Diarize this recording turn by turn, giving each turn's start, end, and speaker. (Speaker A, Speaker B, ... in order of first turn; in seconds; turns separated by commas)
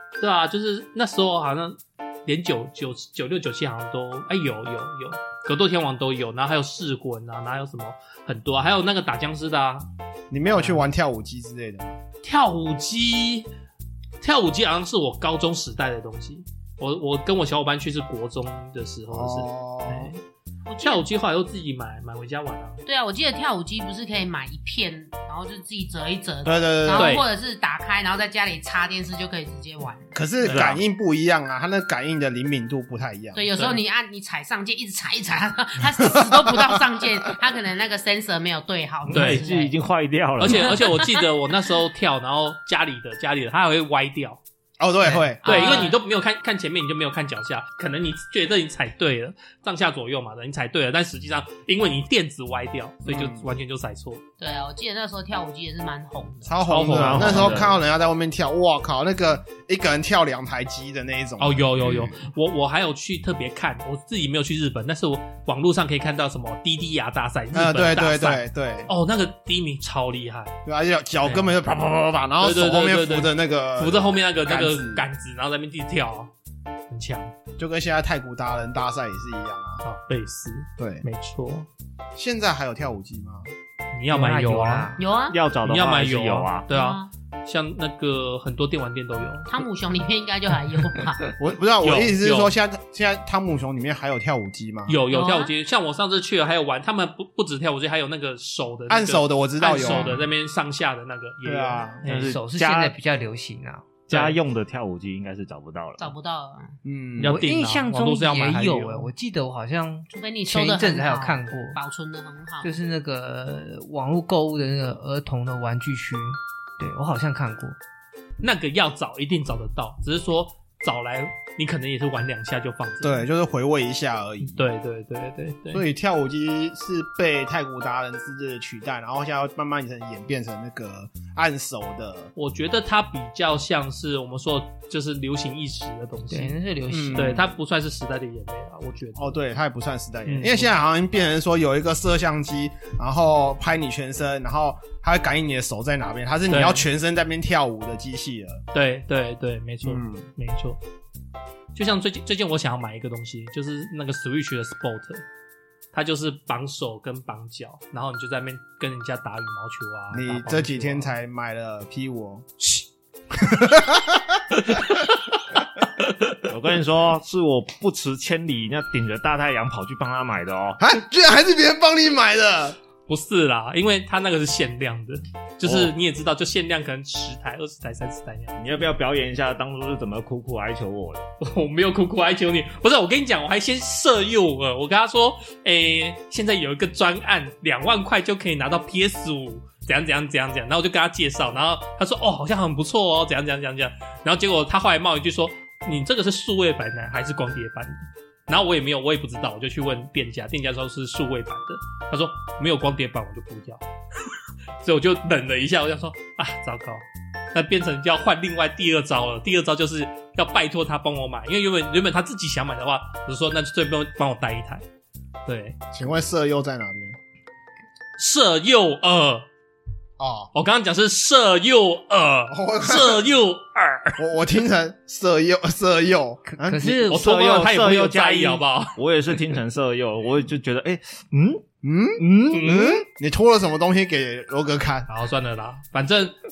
Speaker A: 0.2-9.9, Speaker B: 10.3-12.0, Speaker A: 10.5-10.8, Speaker A: 12.2-13.5, Speaker A: 14.2-20.2, Speaker B: 19.1-20.1, Speaker C: 20.7-21.1, Speaker A: 20.8-22.8, Speaker C: 22.8-30.1, Speaker B: 26.4-27.2, Speaker A: 26.9-27.3, Speaker B: 30.1-33.5, Speaker A: 30.4-30.7, Speaker D: 30.4-30.8, Speaker C: 33.3-39.7, Speaker A: 33.5-33.8, Speaker B: 36.0-36.8, Speaker D: 39.1-40.8, Speaker A: 39.1-39.5, Speaker A: 40.4-44.4, Speaker C: 40.4-41.1, Speaker B: 44.8-45.8, Speaker A: 45.0-54.2, Speaker C: 45.4-46.0, Speaker B: 53.0-53.5, Speaker C: 54.4-56.5, Speaker B: 56.4-62.1, Speaker A: 56.7-57.8, Speaker D: 56.9-57.8, Speaker A: 61.4-70.5, Speaker C: 61.8-62.1, Speaker B: 67.5-68.9, Speaker B: 70.7-75.0, Speaker A: 71.2-71.5, Speaker A: 72.4-76.3, Speaker A: 76.9-77.3, Speaker B: 77.6-79.8, Speaker A: 79.8-81.7, Speaker B: 80.8-81.0, Speaker B: 82.2-83.5, Speaker A: 83.9-85.0, Speaker E: 84.1-85.0, Speaker C: 85.0-85.4, Speaker D: 85.3-86.7, Speaker A: 85.6-89.6, Speaker C: 86.7-87.1, Speaker C: 89.5-91.2, Speaker A: 91.2-92.5, Speaker B: 91.4-95.0, Speaker A: 94.9-102.3, Speaker C: 95.1-95.5, Speaker B: 98.9-100.2, Speaker C: 99.8-100.2, Speaker B: 101.4-102.0, Speaker D: 102.0-103.0, Speaker E: 102.1-103.9, Speaker D: 104.1-106.1, Speaker A: 104.1-104.4, Speaker C: 106.0-106.7, Speaker B: 106.8-107.4, Speaker A: 107.2-109.1, Speaker E: 107.2-111.8, Speaker C: 110.1-112.7, Speaker E: 112.6-117.8, Speaker A: 118.4-123.2, Speaker B: 123.0-124.7, Speaker A: 124.4-125.8, Speaker B: 125.7-132.3, Speaker A: 132.3-136.6, Speaker E: 136.3-137.4, Speaker B: 136.9-137.5, Speaker A: 137.1-139.4, Speaker B: 139.2-148.6, Speaker A: 140.2-140.7, Speaker A: 146.5-146.9, Speaker A: 148.7-150.8, Speaker B: 149.8-150.3, Speaker A: 151.7-155.2, Speaker A: 155.9-161.1, Speaker B: 160.1-162.5, Speaker B: 163.3-164.6, Speaker A: 164.7-165.0, Speaker D: 166.5-170.8, Speaker B: 170.8-172.8, Speaker A: 173.1-178.8, Speaker D: 175.6-175.9, Speaker D: 178.6-181.3, Speaker A: 181.4-203.8, Speaker A: 204.8-214.8, Speaker A: 215.4-215.8, Speaker B: 215.9-217.2, Speaker A: 218.2-219.4, Speaker B: 220.2-220.5, Speaker A: 220.5-224.2, Speaker B: 222.5-223.2, Speaker B: 224.2-227.0, Speaker E: 226.5-227.3, Speaker A: 227.1-228.9, Speaker D: 227.1-231.7, Speaker B: 231.8-235.1, Speaker D: 232.2-232.8, Speaker A: 232.5-233.0, Speaker A: 235.1-236.3